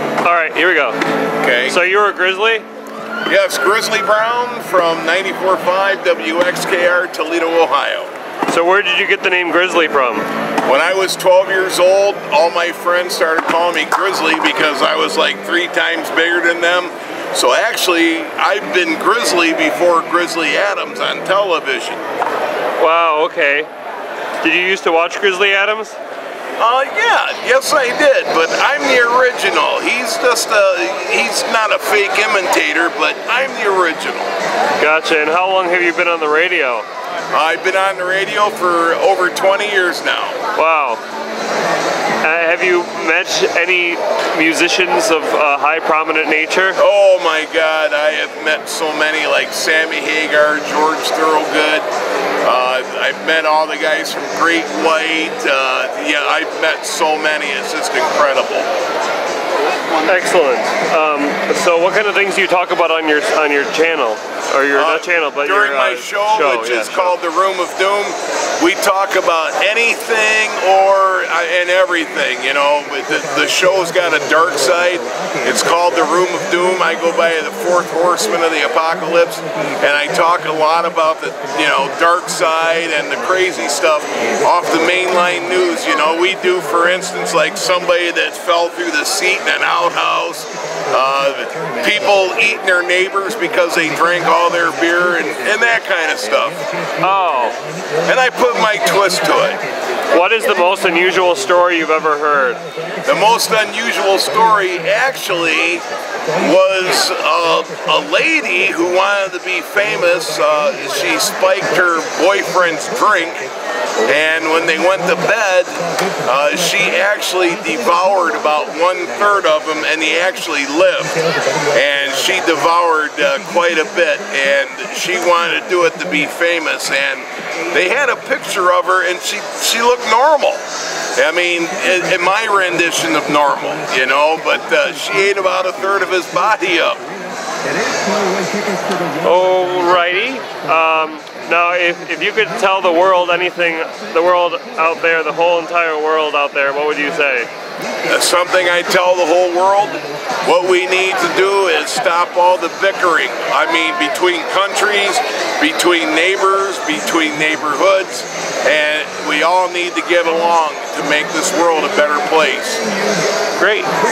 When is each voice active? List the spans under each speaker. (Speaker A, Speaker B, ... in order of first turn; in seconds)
Speaker A: 0.2-1.0, 1.7-2.6, 8.5-10.3, 22.8-23.7, 24.4-26.0, 34.8-36.9, 40.5-41.0, 42.2-46.8, 60.0-67.2, 97.0-97.6, 100.1-102.6, 139.2-147.5, 163.6-163.9
Speaker B: 1.4-1.8, 3.3-8.1, 10.7-22.0, 26.6-34.3, 37.3-40.4, 46.8-51.9, 52.4-58.7, 64.7-96.6, 98.0-99.6, 103.0-113.5, 114.0-130.6, 131.2-137.1, 148.0-162.8